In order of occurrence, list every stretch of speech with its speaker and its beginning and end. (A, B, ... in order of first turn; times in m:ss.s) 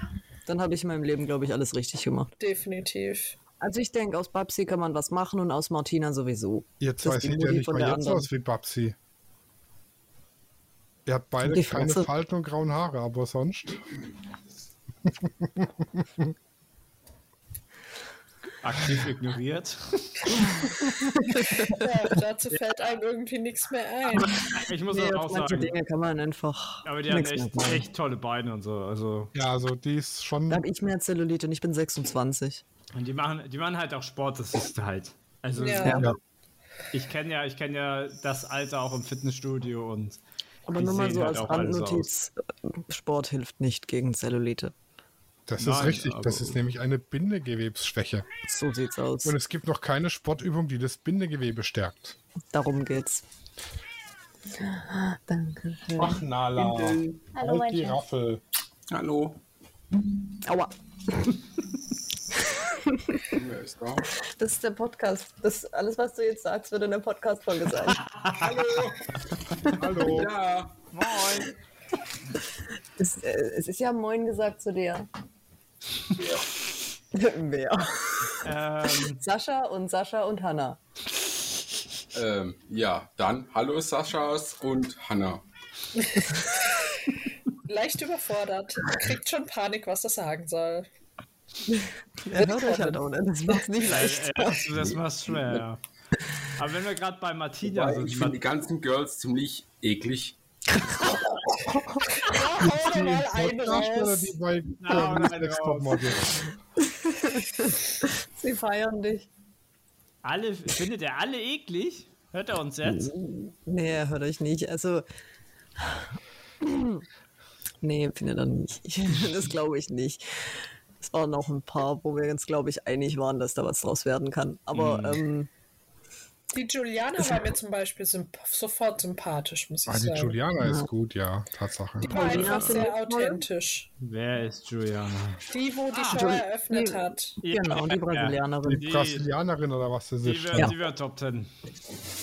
0:00.4-0:02.3 A
0:02.4-0:03.4 B
0:03.6-0:08.3 A
0:06.8-0:09.0 C
0:11.0-0:13.8 C
0:11.4-0:12.1 A
0:15.1-0:16.3 C
0:18.6-0:20.7 D
0:20.3-0:21.8 A
0:21.6-0:24.4 B
0:24.4-0:25.7 D
0:24.5-0:27.9 A
0:26.8-0:29.3 D
0:29.3-0:30.6 C
0:30.5-0:32.6 A
0:32.9-0:36.1 D
0:35.6-0:36.0 B
0:35.8-0:36.1 A
0:36.9-0:40.2 D
0:40.7-0:44.7 A
0:40.8-0:42.1 D
0:45.5-0:48.2 C
0:45.6-0:46.6 D
0:48.4-0:49.4 A
0:49.2-0:52.2 C
0:52.5-0:53.2 A
0:54.6-0:56.2 A
0:56.0-0:58.4 C
0:56.6-0:57.3 E
0:58.9-0:59.4 E
1:00.4-1:01.4 A
1:02.3-1:03.2 A
1:03.3-1:04.1 E
1:04.2-1:08.0 A
1:08.3-1:09.1 E
1:09.7-1:10.3 C
1:10.0-1:10.8 E
1:10.9-1:11.5 D
1:13.0-1:15.1 A
1:16.2-1:16.4 E
1:17.1-1:20.8 A
1:18.4-1:19.2 D
1:22.1-1:25.4 E
1:26.0-1:26.9 B
1:27.6-1:30.8 B
1:31.7-1:34.6 A
1:32.3-1:33.0 B
1:33.8-1:35.8 D
1:36.4-1:38.4 D
1:37.6-1:40.4 E
1:42.2-1:44.3 B
1:42.6-1:46.5 C
1:44.8-1:46.1 D
1:46.9-1:49.3 A
1:50.2-1:53.1 D
1:52.8-1:55.0 A
1:55.8-1:56.1 A
1:56.6-1:57.0 A
1:57.8-2:00.5 A
2:01.0-2:05.5 A
2:04.7-2:05.2 D
2:06.5-2:10.4 B
2:09.9-2:12.5 C
2:10.6-2:10.9 A
2:12.0-2:13.4 A
2:12.0-2:13.9 B
2:14.0-2:16.3 D
2:15.5-2:17.4 B
2:16.0-2:18.8 A
2:17.4-2:19.2 D
2:18.6-2:20.7 C
2:20.2-2:21.5 D